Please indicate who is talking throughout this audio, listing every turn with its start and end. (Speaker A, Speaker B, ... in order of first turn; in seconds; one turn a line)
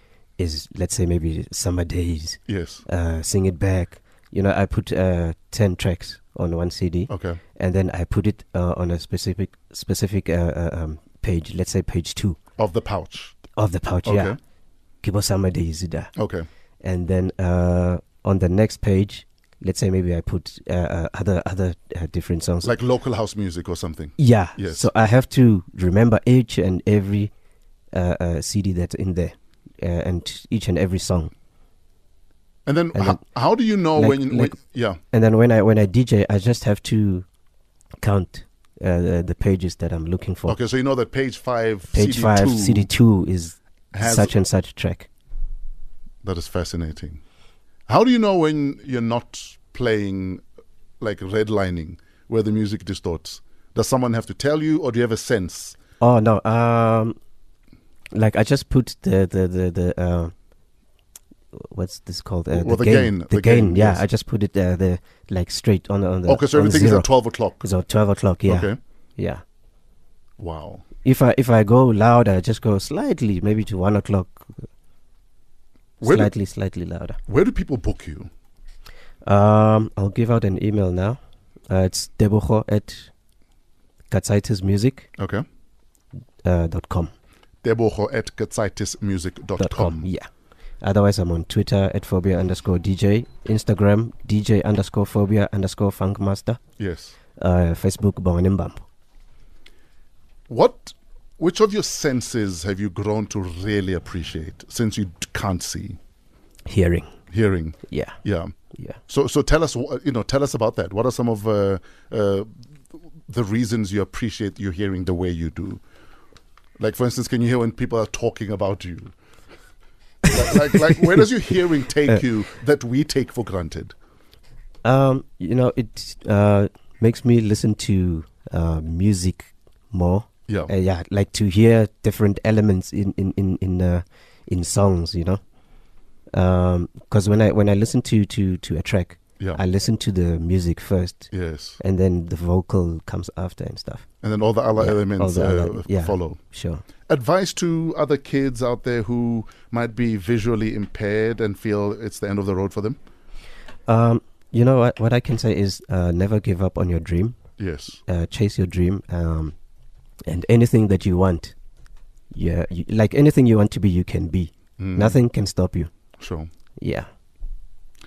Speaker A: 0.4-12.4
Speaker B: 2.5-2.8
Speaker B: 7.1-7.4
Speaker B: 12.6-13.4
Speaker A: 13.6-14.4
Speaker B: 14.1-14.4
Speaker A: 15.0-16.1
Speaker B: 16.2-16.5
Speaker A: 16.8-22.7
Speaker B: 22.6-24.9
Speaker A: 24.2-27.3
Speaker A: 27.9-31.3
Speaker B: 32.7-35.0
Speaker A: 32.9-33.2
Speaker A: 33.9-34.6
Speaker A: 35.1-37.3
Speaker A: 38.0-40.6
Speaker B: 40.5-42.9
Speaker A: 41.9-45.1
Speaker B: 43.9-44.3
Speaker B: 46.2-47.2
Speaker B: 47.9-50.4
Speaker B: 51.0-55.8
Speaker A: 56.0-57.2
Speaker A: 58.1-60.3
Speaker A: 61.5-69.4
Speaker B: 62.5-64.0
Speaker B: 66.3-67.7
Speaker B: 68.5-68.8
Speaker B: 70.4-70.8
Speaker A: 71.0-74.6
Speaker B: 76.0-76.3
Speaker A: 76.0-77.2
Speaker B: 77.3-78.3
Speaker A: 79.2-83.1
Speaker A: 84.1-85.1
Speaker B: 85.2-85.5
Speaker A: 86.4-87.1
Speaker B: 87.6-90.1
Speaker A: 89.6-90.3
Speaker A: 90.8-96.6
Speaker B: 96.8-97.2
Speaker A: 97.4-98.8
Speaker B: 100.5-106.0
Speaker A: 106.7-107.1
Speaker B: 107.3-108.5
Speaker A: 107.9-108.2
Speaker B: 109.1-112.5
Speaker B: 113.3-115.8
Speaker B: 116.8-119.1
Speaker B: 120.3-123.9
Speaker A: 124.8-135.4
Speaker A: 136.3-144.1
Speaker B: 141.3-141.8
Speaker B: 144.2-146.4
Speaker A: 144.8-146.8
Speaker B: 147.1-153.0
Speaker A: 153.9-157.4
Speaker B: 157.6-158.0
Speaker A: 158.1-159.6
Speaker A: 160.3-161.5
Speaker A: 162.3-165.9
Speaker B: 164.8-165.2
Speaker B: 166.2-166.5
Speaker A: 166.8-167.1